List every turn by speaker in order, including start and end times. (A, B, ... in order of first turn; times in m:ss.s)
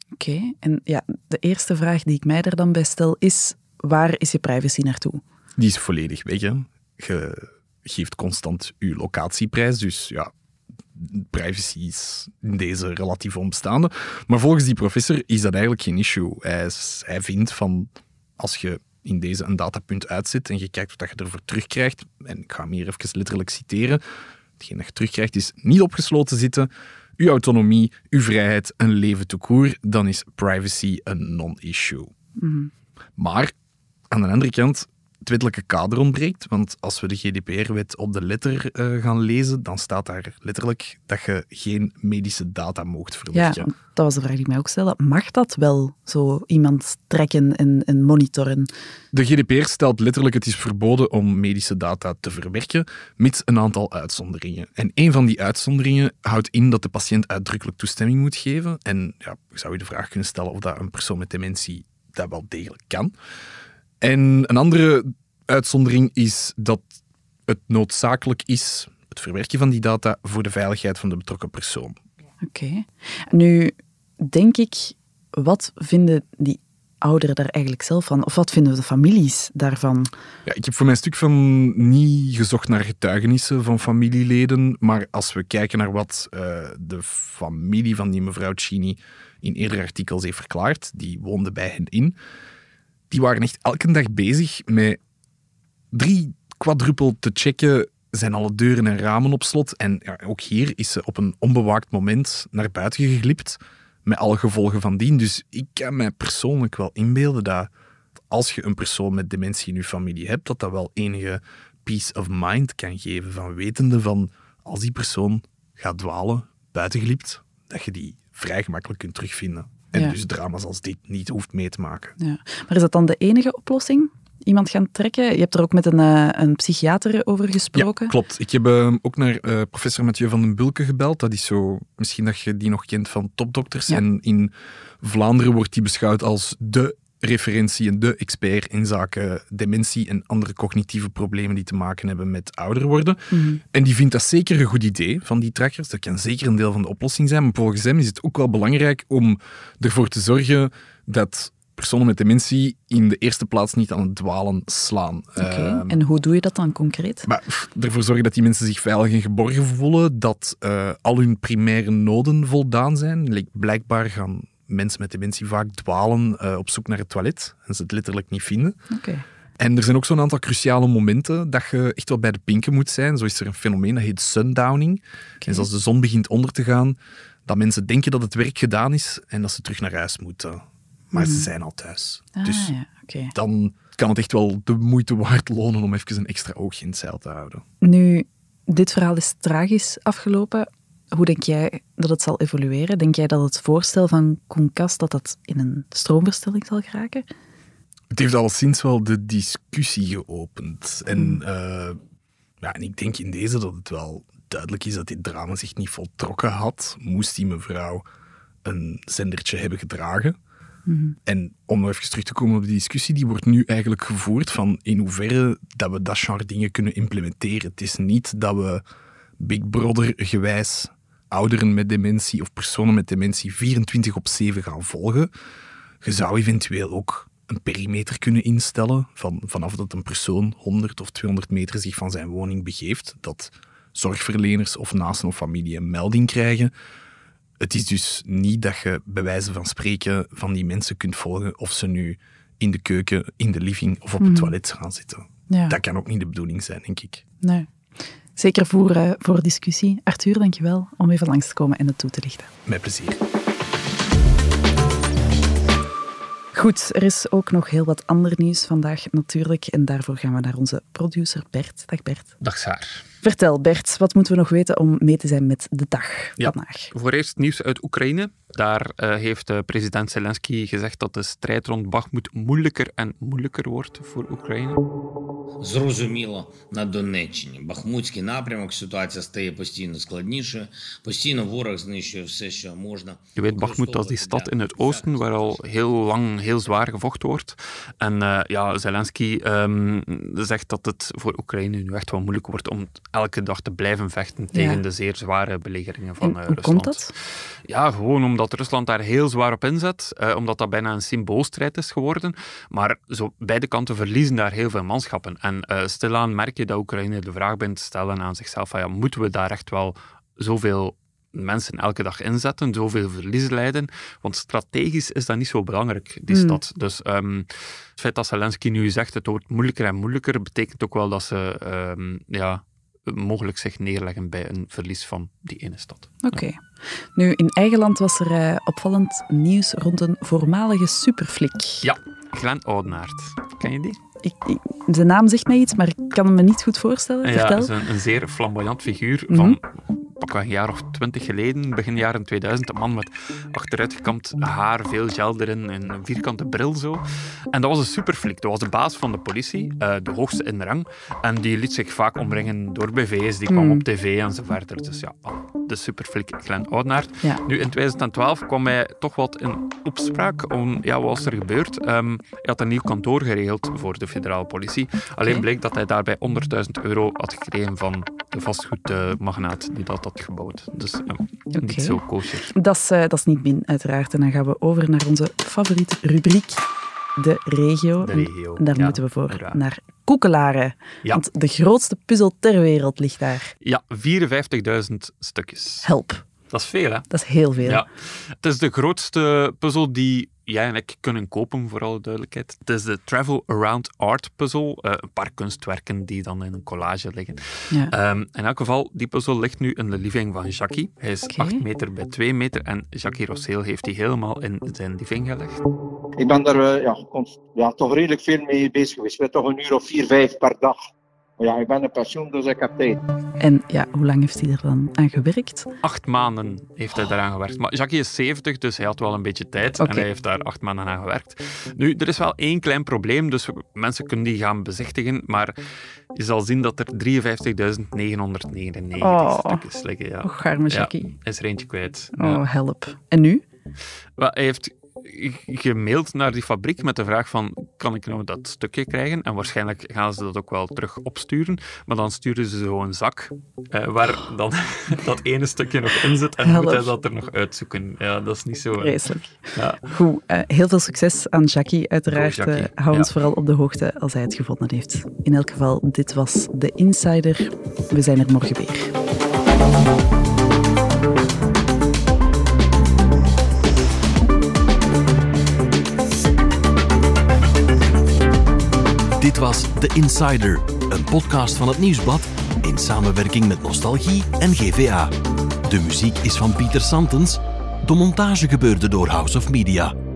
0:00.2-0:05.2 A
0:05.6-0:10.3 B
0:11.0-0:24.0 B
0:24.6-0:32.1 B
0:32.4-0:32.7 A
0:33.2-0:33.5 B
0:34.1-0:43.7 B
0:43.3-0:48.7 A
0:49.1-1:03.1 B
1:04.0-1:06.9 B
1:07.5-1:12.0 B
1:12.4-1:20.1 A
1:20.5-1:32.2 B
1:33.1-1:35.0 B
1:35.9-1:47.7 B
1:48.3-2:02.2 B
2:02.2-2:08.1 A
2:07.7-2:23.2 B
2:23.3-2:23.6 A
2:23.7-2:36.0 B
2:35.4-2:37.3 A
2:37.2-2:48.8 B
2:48.9-2:49.2 A
2:49.6-3:02.7 B
3:01.2-3:01.5 A
3:02.4-3:03.3 A
3:03.3-3:07.6 B
3:07.8-3:17.3 A
3:18.1-3:22.0 B
3:22.6-3:28.0 B
3:28.6-3:30.4 B
3:30.9-3:31.2 A
3:31.3-3:38.8 B
3:39.4-3:45.3 B
3:46.0-3:56.7 B
3:57.6-4:07.2 B
4:04.2-4:04.5 A
4:05.5-4:05.8 A
4:07.4-4:07.7 A
4:08.4-4:12.5 A
4:12.7-4:13.2 B
4:16.5-4:22.3 A
4:22.4-4:23.0 C
4:23.2-4:26.9 A
4:26.4-4:34.8 C
4:35.6-4:45.6 D
4:43.4-4:57.1 C
4:54.5-4:54.8 A
4:56.2-4:57.1 A
4:57.7-5:26.4 C
5:16.3-5:16.6 A
5:26.2-5:26.6 A
5:27.2-5:31.9 A
5:31.8-5:34.0 C
5:34.2-5:37.7 A
5:37.2-5:39.7 C
5:39.3-5:39.6 A
5:40.2-6:12.5 C
5:53.5-5:53.8 A
6:11.6-6:16.6 A
6:17.2-6:23.5 A
6:18.0-6:19.6 C
6:23.6-6:25.9 C
6:25.8-6:26.2 A
6:26.5-6:27.1 C
6:27.1-6:27.8 A
6:27.6-6:45.6 C
6:41.3-6:41.6 A
6:46.2-6:50.9 E
6:51.4-6:53.0 E
6:53.4-6:55.7 A
6:55.8-7:05.6 C
6:59.8-7:00.1 A
7:06.2-7:12.4 C
7:09.0-7:09.6 A
7:10.2-7:11.1 A
7:12.2-7:13.4 A
7:14.2-7:29.0 C
7:26.4-7:26.9 A
7:28.8-7:38.9 A
7:29.6-7:29.8 C
7:32.1-7:33.1 C
7:49.2-7:55.1 F
7:55.7-7:59.9 F